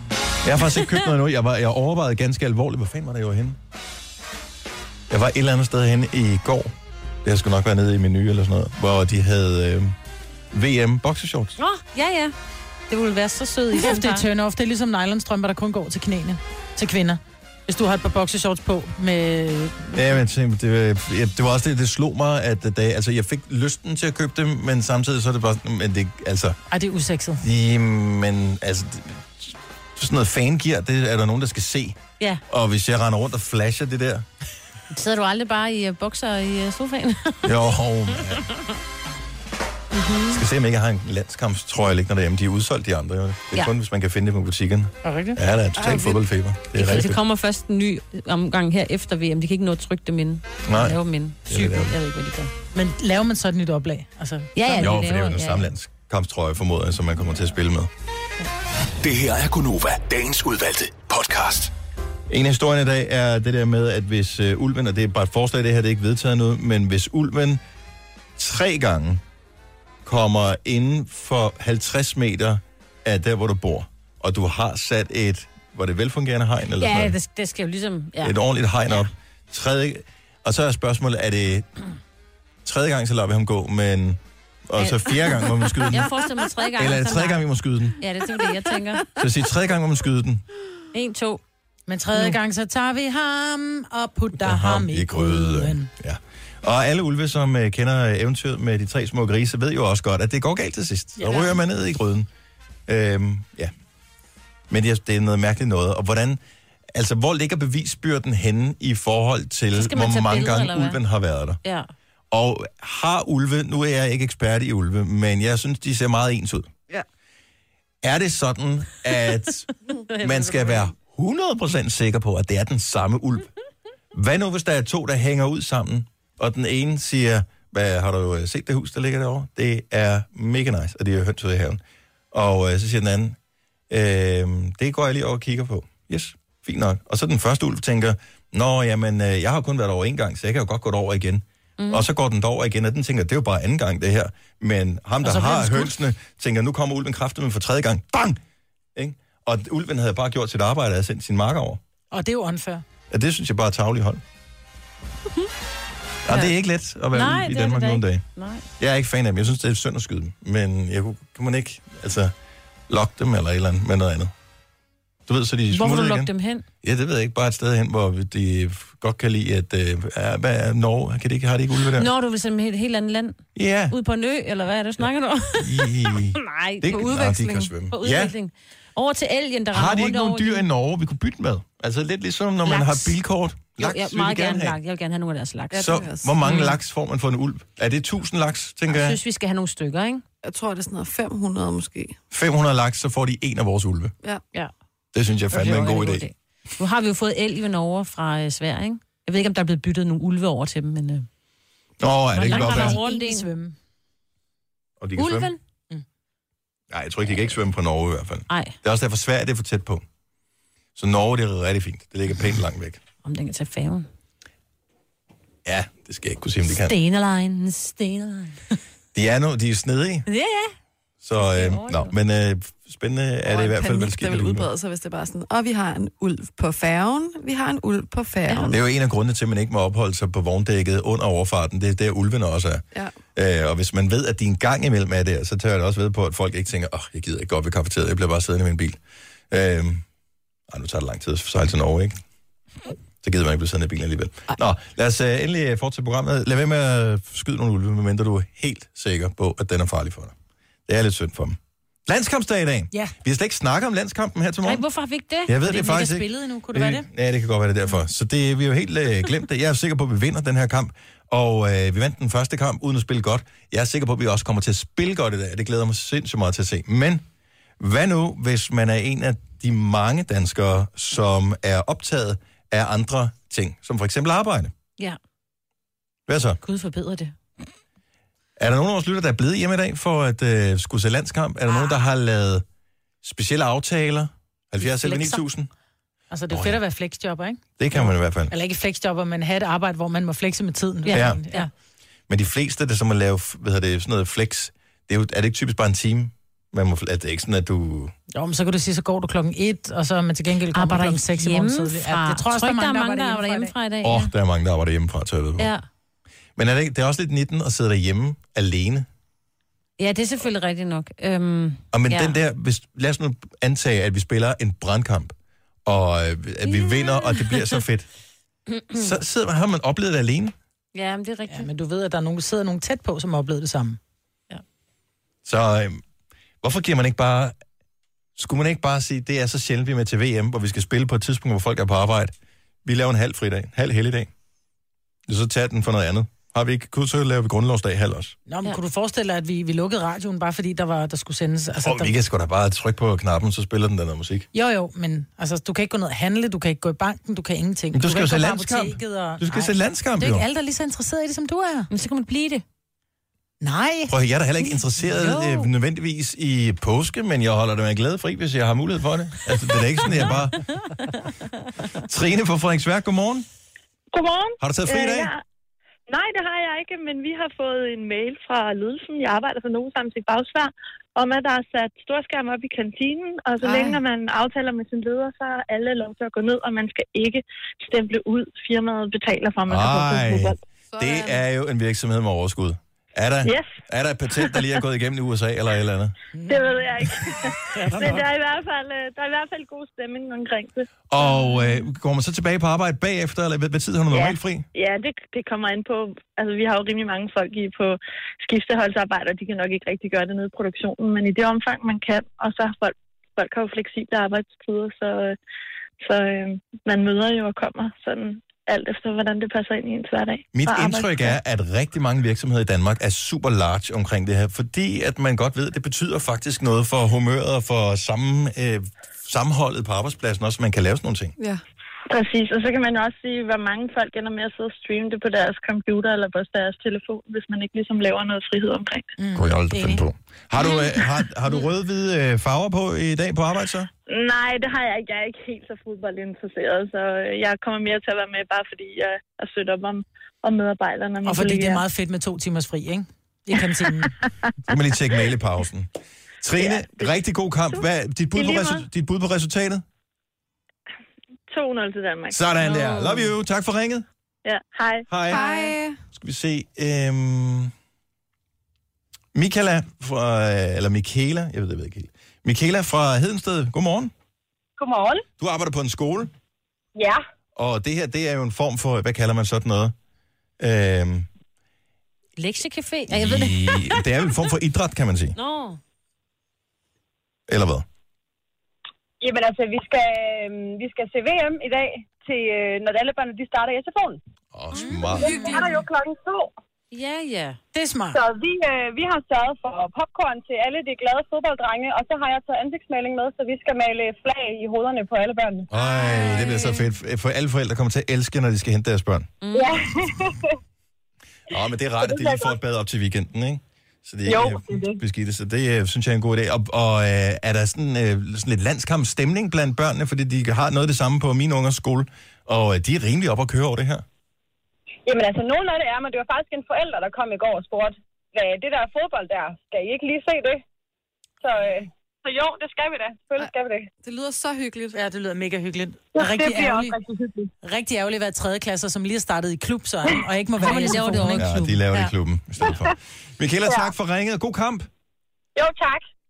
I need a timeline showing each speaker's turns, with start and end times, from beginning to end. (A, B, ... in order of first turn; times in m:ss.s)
0:00.4-0:03.6 A
0:05.1-0:06.7 A
0:07.2-0:09.9 A
0:10.5-0:11.6 A
0:11.6-0:12.3 B
0:12.9-0:14.2 B
0:13.7-0:20.1 C
0:19.9-0:26.6 A
0:26.7-0:27.4 C
0:27.4-0:34.2 A
0:34.9-0:37.7 B
0:37.4-0:38.5 A
0:39.9-0:40.4 B
0:40.3-0:47.2 A
0:45.0-0:45.4 C
0:45.8-0:46.2 D
0:46.7-0:52.5 B
0:50.6-0:51.9 A
0:52.7-0:54.9 C
0:54.6-0:55.7 B
0:54.7-0:57.9 A
0:59.0-1:01.7 E
1:02.3-1:07.6 A
1:08.4-1:09.2 A
1:10.0-1:17.2 A
1:16.8-1:18.4 B
1:18.2-1:21.7 A
1:22.6-1:28.0 A
1:24.8-1:27.4 B
1:28.0-1:29.1 B
1:29.2-1:30.4 A
1:30.9-1:31.4 B
1:31.9-1:35.9 C
1:34.4-1:42.3 A
1:42.9-1:43.7 A
1:44.7-1:46.4 A
1:46.9-1:51.6 A
1:49.7-1:51.0 B
1:51.6-1:51.9 B
1:52.3-1:56.7 A
1:58.0-2:03.5 A
2:00.1-2:00.9 B
2:04.1-2:11.8 A
2:12.3-2:13.4 A
2:13.9-2:28.4 A
2:21.8-2:22.1 B
2:25.2-2:26.0 C
2:28.9-2:31.8 A
2:32.1-2:32.8 C
2:33.1-2:34.2 A
2:36.2-2:38.2 A
2:36.3-2:36.5 B
2:37.1-2:38.6 B
2:38.8-2:42.3 A
2:42.9-2:44.3 A
2:45.3-2:46.3 A
2:45.7-2:46.6 B
2:46.8-2:52.1 A
2:51.9-2:57.2 B
2:53.6-2:53.9 A
2:55.6-2:58.3 A
2:56.9-2:57.7 D
2:57.9-3:00.6 B
2:59.7-3:04.8 A
3:02.6-3:03.1 B
3:03.8-3:06.8 B
3:05.7-3:06.4 D
3:05.7-3:09.2 A
3:08.9-3:10.2 B
3:10.4-3:12.2 D
3:12.3-3:14.1 A
3:15.1-3:16.3 A
3:15.5-3:21.3 B
3:22.0-3:23.0 A
3:22.3-3:23.5 B
3:22.4-3:23.7 C
3:25.0-3:25.5 A
3:25.2-3:25.6 B
3:26.9-3:30.0 A
3:28.5-3:28.7 B
3:31.0-3:33.0 A
3:33.2-3:34.1 B
3:35.6-3:36.9 A
3:36.7-3:38.8 B
3:39.1-3:40.3 A
3:40.3-3:40.7 B
3:41.2-3:44.7 A
3:41.4-3:42.1 B
3:43.4-3:48.8 D
3:48.7-3:52.8 A
3:53.3-4:00.0 A
4:00.7-4:02.2 A
4:03.2-4:10.3 A
4:10.9-4:14.8 A
4:14.6-4:15.6 B
4:15.4-4:27.2 A
4:15.6-4:17.1 C
4:27.8-4:34.7 A
4:36.3-4:36.6 A
4:36.6-4:37.3 B
4:38.6-4:42.6 A
4:43.2-4:45.7 A
4:44.8-4:45.4 C
4:46.3-4:51.7 C
4:46.5-4:46.8 A
4:47.8-4:48.5 A
4:51.0-4:51.7 B
4:51.1-4:51.4 A
4:52.3-4:58.1 A
4:58.3-5:03.7 C
5:00.7-5:04.3 B
5:04.0-5:05.7 A
5:05.6-5:05.8 B
5:06.6-5:09.0 A
5:10.0-5:12.4 B
5:11.9-5:18.1 A
5:16.6-5:17.8 B
5:18.7-5:19.1 B
5:18.9-5:20.5 A
5:20.9-5:21.7 B
5:21.5-5:24.0 C
5:25.4-5:26.0 A
5:26.6-5:27.6 A
5:28.4-5:32.3 A
5:32.8-5:34.3 A
5:35.3-5:38.4 A
5:38.5-5:42.1 C
5:41.8-5:44.5 A
5:44.5-5:51.9 C
5:47.9-5:50.4 A
5:51.9-5:52.6 B
5:53.6-5:54.1 C
5:54.1-6:00.7 A
5:55.1-5:55.7 B
6:02.0-6:03.4 A
6:04.2-6:05.4 F
6:04.6-6:05.3 A
6:06.1-6:20.6 F
6:13.7-6:13.9 D
6:19.7-6:26.1 A
6:20.9-6:21.4 D
6:23.4-6:23.7 F
6:26.3-6:26.8 C
6:26.5-6:30.9 F
6:27.7-6:28.2 C
6:31.1-6:34.7 A
6:34.1-6:45.4 F
6:46.0-6:51.4 F
6:50.5-7:01.3 A
7:02.1-7:09.1 F
7:09.2-7:10.0 C
7:09.3-7:13.9 A
7:14.1-7:21.8 F
7:21.2-7:24.2 C
7:24.7-7:25.9 A
7:26.4-7:29.8 A
7:26.6-7:27.2 F
7:28.3-7:28.8 F
7:31.5-7:32.4 F
7:32.3-7:34.0 A
7:32.8-7:33.3 B
7:34.4-7:35.1 F
7:35.1-7:35.5 A
7:35.2-7:36.0 D
7:36.1-7:37.7 A
7:39.3-7:44.1 A
7:44.8-7:45.2 G
7:45.4-7:46.3 A
7:47.6-7:49.9 A
7:50.6-7:51.3 A
7:52.4-7:54.0 B
7:53.1-7:55.4 A
7:55.4-7:55.8 B
7:57.5-7:57.8 A
7:59.2-8:04.2 G
8:04.5-8:05.4 A
8:04.7-8:05.8 C
8:05.2-8:06.5 G
8:06.9-8:07.6 B
8:07.7-8:08.2 C
8:08.1-8:16.6 G
8:15.7-8:19.3 A
8:19.4-8:19.8 B
8:19.5-8:20.4 G
8:21.5-8:34.0 A
8:22.0-8:22.5 G
8:24.2-8:25.0 G
8:35.0-8:40.6 G
8:41.4-8:43.9 G
8:43.4-8:45.0 D
8:44.9-8:47.0 C
8:46.1-8:47.5 G
8:47.6-8:51.5 C
8:50.6-8:51.8 B
8:51.0-8:54.9 A
8:55.6-8:56.0 G